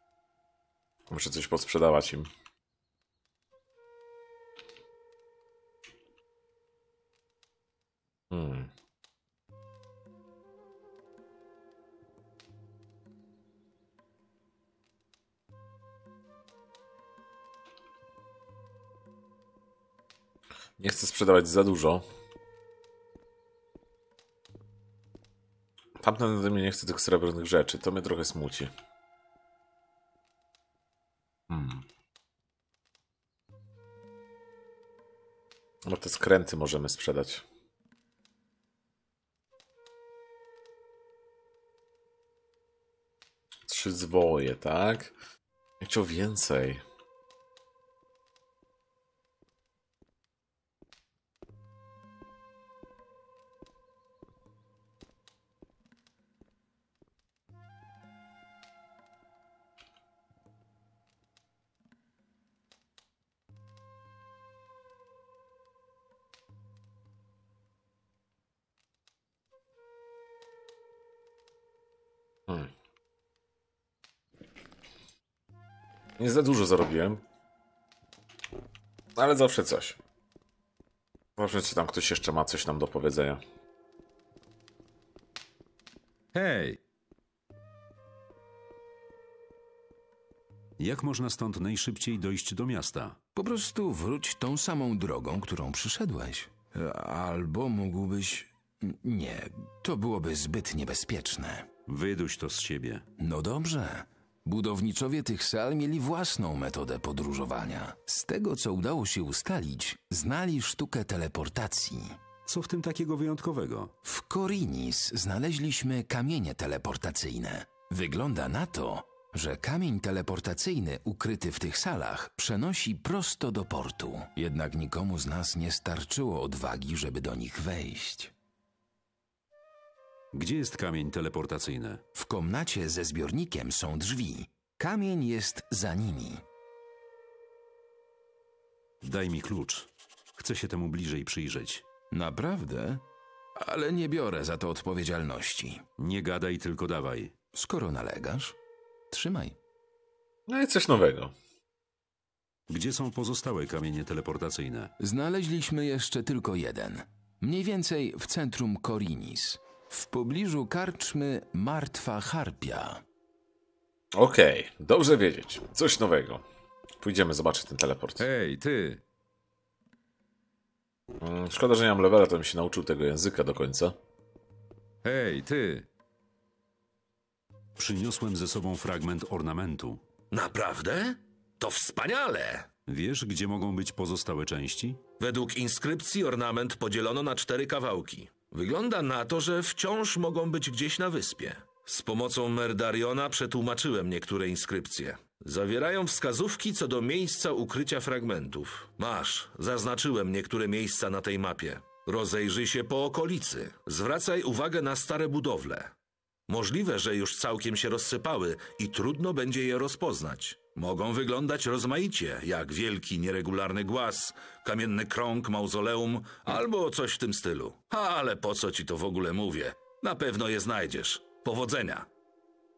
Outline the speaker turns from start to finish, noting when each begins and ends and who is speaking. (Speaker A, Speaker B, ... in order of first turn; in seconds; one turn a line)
Speaker A: 1.1-2.3
Speaker A: 8.3-8.7
Speaker A: 20.8-22.0
Speaker A: 26.0-28.7
Speaker A: 31.5-31.8
Speaker A: 35.9-37.4
Speaker A: 43.7-45.1
Speaker A: 45.8-46.8
Speaker A: 76.2-77.2
Speaker A: 79.2-80.0
Speaker A: 81.4-83.4
Speaker B: 86.3-86.8
Speaker B: 90.8-93.2
Speaker C: 93.3-101.7
Speaker B: 101.8-103.0
Speaker C: 103.2-112.2
Speaker B: 112.5-113.9
Speaker C: 114.0-128.3
Speaker B: 130.3-132.0
Speaker C: 132.1-136.4
Speaker B: 139.0-141.8
Speaker C: 142.1-143.0
Speaker C: 143.6-145.8
Speaker B: 146.0-147.3
Speaker C: 147.5-148.6
Speaker C: 149.1-149.6
Speaker A: 150.5-151.3
Speaker B: 152.7-154.9
Speaker C: 155.0-163.0
Speaker A: 164.1-166.4
Speaker A: 167.0-168.2
Speaker B: 168.2-169.0
Speaker A: 171.2-173.9
Speaker B: 175.0-175.9
Speaker B: 177.8-180.0
Speaker D: 180.3-182.7
Speaker B: 182.8-185.0
Speaker D: 185.2-205.9
Speaker D: 206.5-222.1